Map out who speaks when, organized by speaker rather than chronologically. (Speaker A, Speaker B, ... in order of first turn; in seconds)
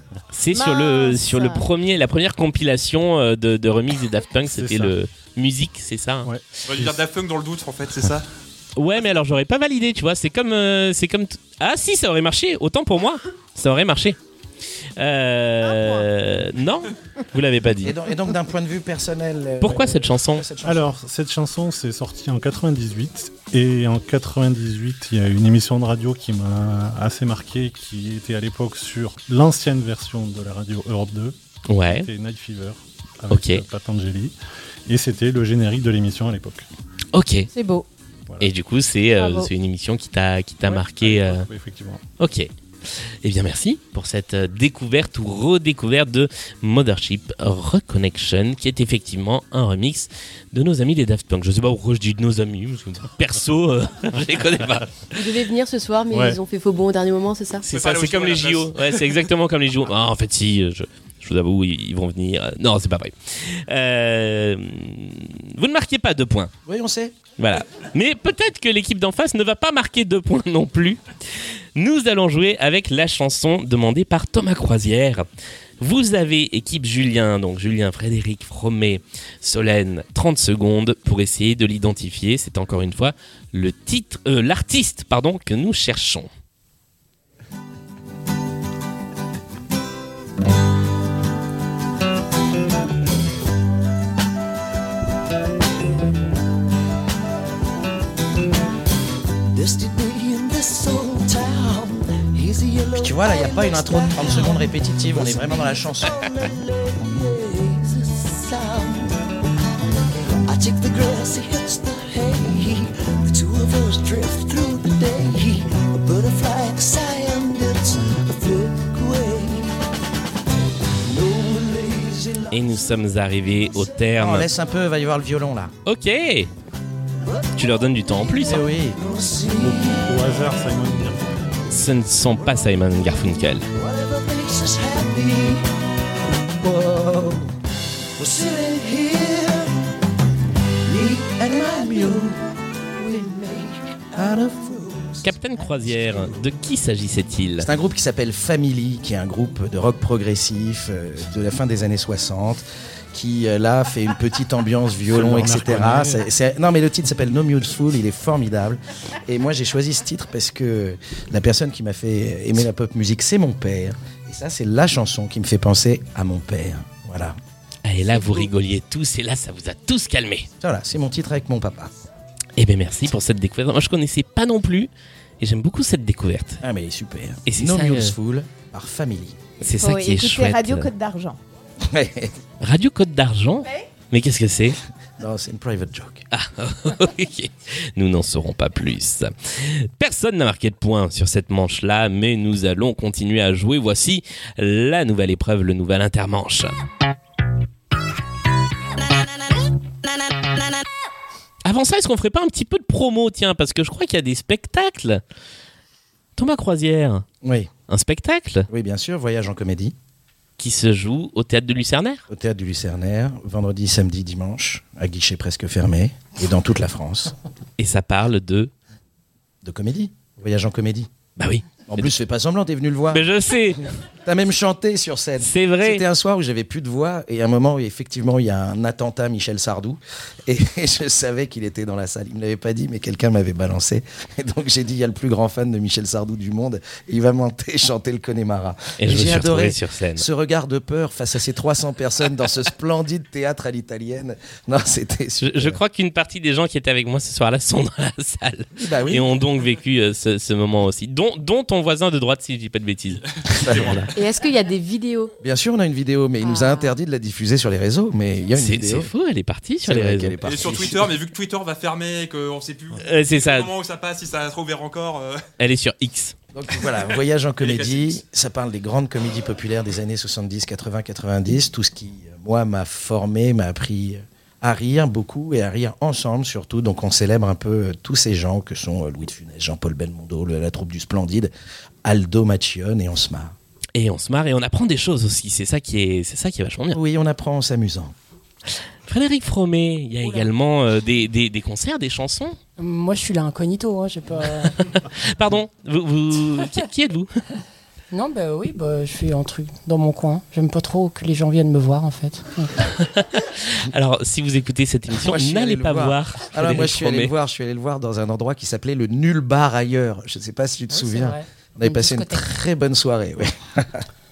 Speaker A: 0.3-6.3, 8.8-14.2, 15.0-18.0, 19.6-20.5, 31.7-32.1, 33.3-33.6, 37.1-37.5, 38.4-41.5, 42.2-42.5, 43.2-55.0, 57.7-66.5, 67.4-71.0, 71.8-75.3, 75.8-86.3, 122.5-124.5, 125.9-126.5, 127.6-128.6, 131.7-133.7, 145.2-147.7, 167.8-170.5, 172.6-174.9, 175.4-176.6, 177.5-178.2, 179.6-180.9, 182.6-184.8, 186.3-196.7, 201.7-205.2, 206.4-207.3, 207.9-208.7, 210.6-212.2, 217.8-218.7, 221.4-222.1, 223.1-223.8, 225.4-226.0, 239.0-240.3, 245.4-254.0, 258.5-260.4, 263.0-263.7, 265.6-266.4, 283.9-287.0, 289.1-292.6, 295.2-297.3, 302.9-307.3
Speaker B: 0.5-1.6, 15.6-16.1, 37.5-37.9, 39.2-39.5, 179.8-181.4, 256.4-256.9
Speaker C: 4.5-4.9, 6.2-7.0, 20.6-31.4, 31.9-34.4, 34.9-36.6, 40.6-42.0, 56.1-56.4, 129.6-131.3, 155.1-156.2
Speaker D: 6.7-8.3, 57.7-59.3, 260.4-265.4, 266.8-268.2
Speaker E: 17.8-20.9, 66.7-67.2, 103.0-106.2, 124.2-125.7, 128.4-129.0, 136.6-137.4, 141.4-142.3, 144.2-144.6, 147.6-167.4, 170.6-171.9, 176.6-179.4, 181.8-182.3, 185.2-186.3, 207.4-207.7, 208.7-209.9, 212.3-217.3, 219.6-221.1, 221.9-223.2, 224.2-245.8, 248.8-249.3, 253.5-254.1, 255.4-259.1, 259.8-261.1, 266.5-281.5, 282.1-283.6, 286.9-288.1, 305.1-314.1
Speaker F: 55.1-57.7, 254.1-255.3
Speaker G: 99.5-109.2, 110.4-119.7, 121.0-123.0, 123.7-124.0, 128.9-130.6, 133.7-135.7, 138.2-139.7, 140.9-142.4, 143.0-146.4
Speaker H: 290.2-290.5, 292.8-295.0, 298.1-302.7, 310.9-312.5